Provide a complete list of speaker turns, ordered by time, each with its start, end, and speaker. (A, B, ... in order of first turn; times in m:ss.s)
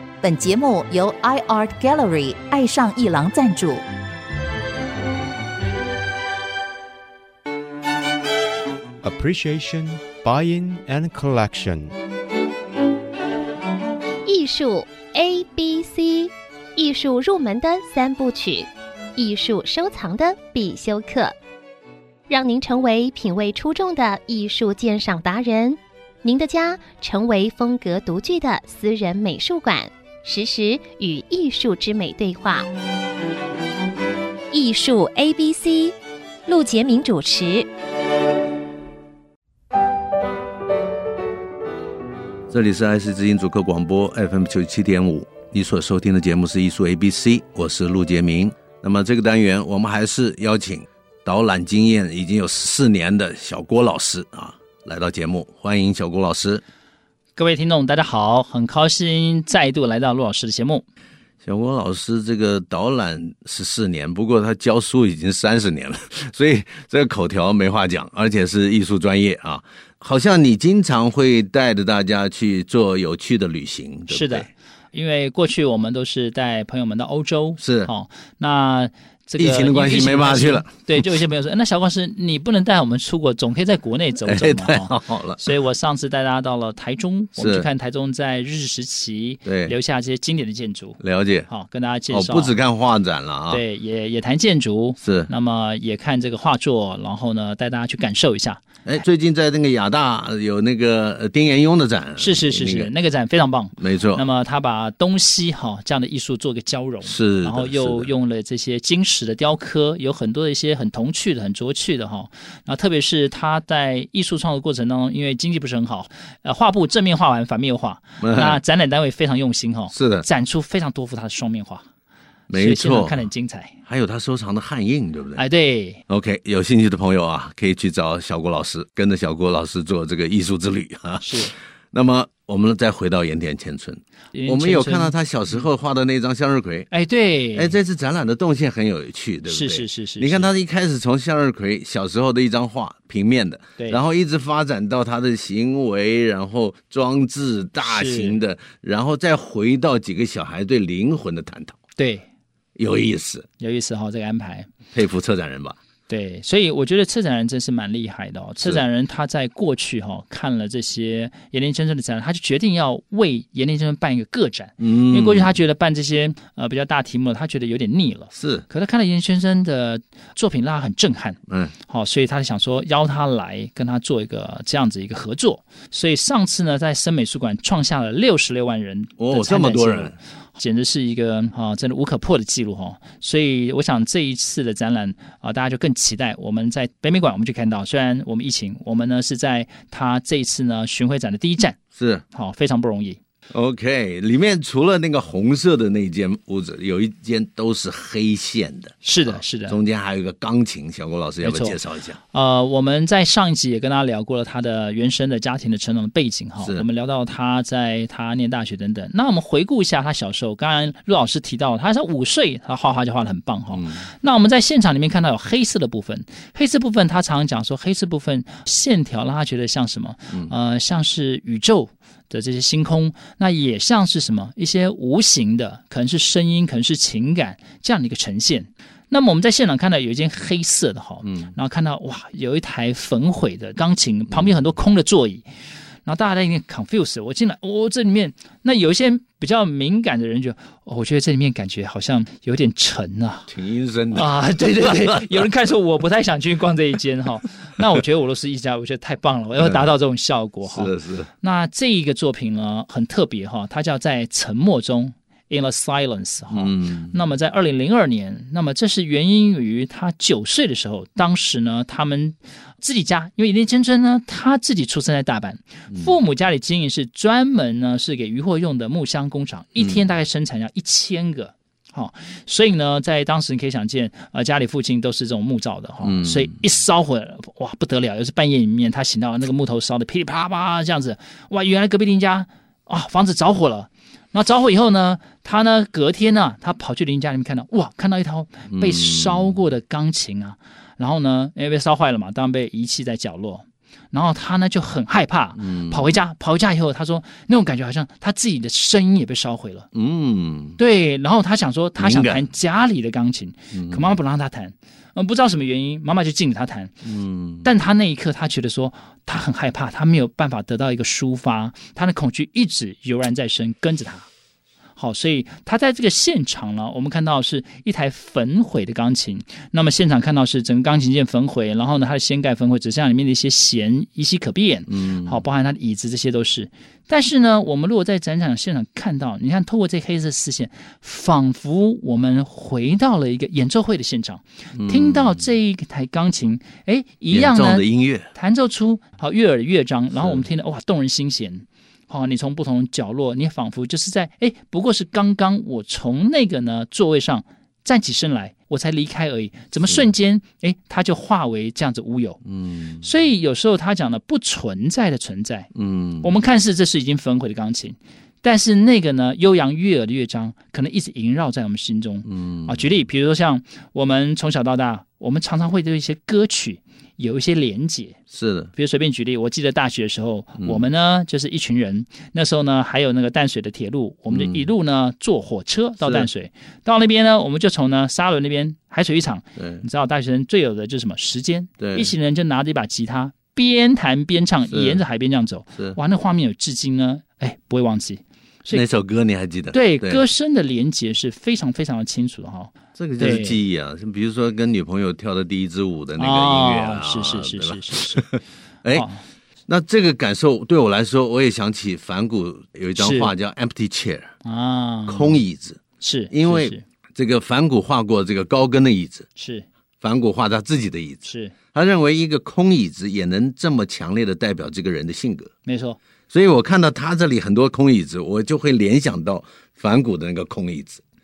0:00.2-0:03.8 A
0:09.0-0:11.9 B
0:14.2-0:21.3 C
0:22.3-0:32.7 C
0:34.5-0:35.9 C
0:36.5-0:37.7 C
0:42.5-0:56.6 D
0:57.4-1:00.8 E
1:01.4-1:14.5 D
1:14.1-1:32.6 E
1:17.6-1:17.9 D
1:19.4-1:21.2 D
1:24.2-1:25.4 D
1:27.4-1:27.7 D
1:29.5-1:29.8 D
1:31.0-1:31.5 D
1:32.1-1:33.6 D
1:33.5-1:38.6 E
1:35.0-1:35.3 D
1:38.8-1:42.9 D
1:42.2-2:01.8 E
1:43.8-1:44.2 D
1:47.0-1:48.1 D
1:58.2-1:58.6 D
1:59.9-2:00.3 D
2:02.5-2:03.8 E
2:02.5-2:03.3 D
2:03.9-2:05.4 D
2:05.4-2:06.0 E
2:06.1-2:16.9 D
2:11.2-2:11.5 E
2:14.3-2:15.2 E
2:16.9-2:17.8 E
2:17.5-2:31.8 D
2:19.5-2:20.5 E
2:27.8-2:28.4 E
2:32.0-2:32.3 E
2:32.8-2:33.5 D
2:33.6-2:34.7 E
2:34.9-2:35.8 D
2:36.1-3:11.8 E
2:44.8-2:45.5 D
2:48.3-2:48.6 D
2:51.5-2:51.7 D
2:59.2-3:00.2 D
3:12.0-3:12.2 D
3:12.3-3:13.2 E
3:13.5-3:22.2 D
3:19.0-3:19.8 E
3:21.4-3:21.8 E
3:22.3-3:55.5 E
3:26.6-3:26.9 D
3:33.7-3:34.0 D
3:51.2-3:51.5 D
3:56.0-4:03.5 E
4:03.5-4:05.4 D
4:04.1-4:59.9 E
4:09.6-4:09.9 D
4:10.6-4:11.3 D
4:16.5-4:17.1 D
4:36.0-4:36.5 D
4:48.7-4:49.5 D
4:55.6-4:56.2 D
4:59.9-5:00.8 D
5:00.8-5:07.0 E
5:02.0-5:02.5 D
5:03.7-5:04.2 D
5:07.0-5:07.7 D
5:07.6-5:14.3 E
5:15.0-5:52.4 E
5:24.9-5:25.4 D
5:34.8-5:35.4 D
5:37.3-5:38.3 D
5:40.1-5:40.4 D
5:52.5-5:53.0 D
5:53.0-6:08.2 E
5:55.8-5:56.4 D
6:02.3-6:02.9 D
6:08.3-6:08.7 D
6:08.7-6:28.8 E
6:10.6-6:10.9 D
6:14.3-6:14.7 D
6:16.0-6:16.3 D
6:19.6-6:19.8 D
6:21.8-6:22.1 D
6:24.7-6:25.0 D
6:28.7-6:30.2 D
6:29.7-6:33.6 E
6:33.0-6:39.1 D
6:36.2-6:38.2 E
6:38.9-6:39.2 E
6:39.7-6:44.3 D
6:43.0-6:43.3 E
6:44.4-6:45.4 E
6:45.1-6:49.3 D
6:46.0-6:46.8 E
6:49.4-6:49.7 E
6:50.0-6:55.5 D
6:51.3-6:51.6 E
6:55.7-6:56.0 E
6:56.3-7:01.0 D